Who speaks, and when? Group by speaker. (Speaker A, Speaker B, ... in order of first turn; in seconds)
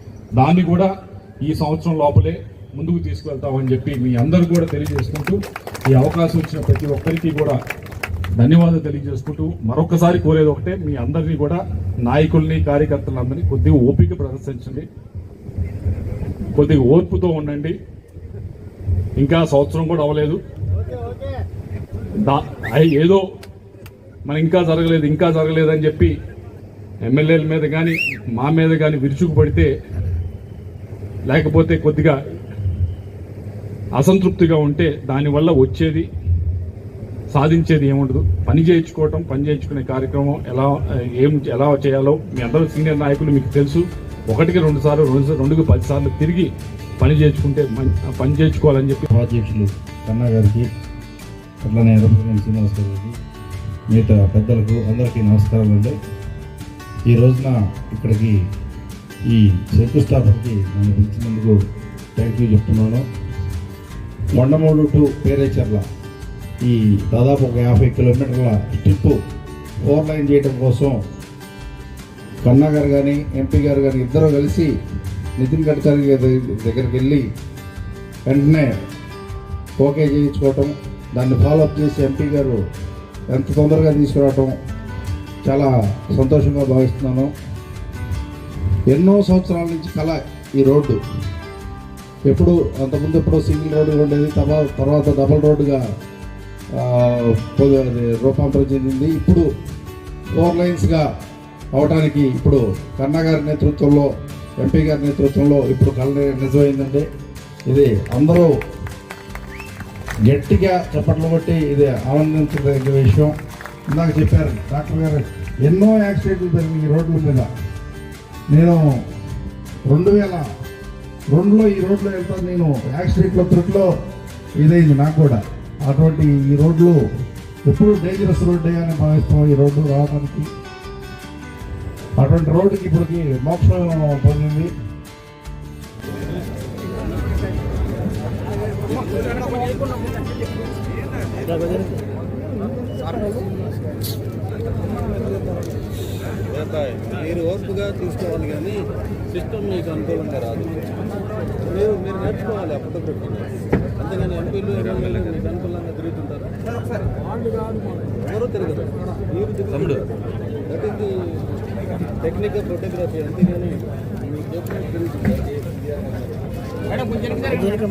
Speaker A: 0.4-0.9, 1.4-5.4, 5.9-7.6, 8.4-14.9, 16.6-17.8, 19.2-20.4, 22.2-23.2, 24.3-26.1, 27.0-29.7, 31.3-32.2, 34.0-36.1, 37.3-49.1
Speaker B: 49.1-50.7, 51.6-53.2, 53.9-56.0, 57.1-58.4, 59.3-61.6, 62.2-63.1, 64.4-65.9, 66.6-69.2, 69.9-71.0, 72.4-74.7, 75.4-77.3, 78.3-78.8, 79.8-82.6, 83.3-84.6, 85.5-87.3, 88.9-91.0, 92.3-95.8, 96.8-99.5, 100.3-101.1, 101.7-107.1, 107.7-108.5, 110.3-113.4, 113.9-117.5, 118.5-119.0, 119.9-120.5, 121.3-123.9, 124.6-127.0, 127.7-130.5, 132.2-134.7, 154.4-155.6, 159.7-160.1
Speaker C: 147.0-148.8, 149.4-150.7, 151.9-153.5, 155.6-156.2, 162.3-163.8, 164.4-165.4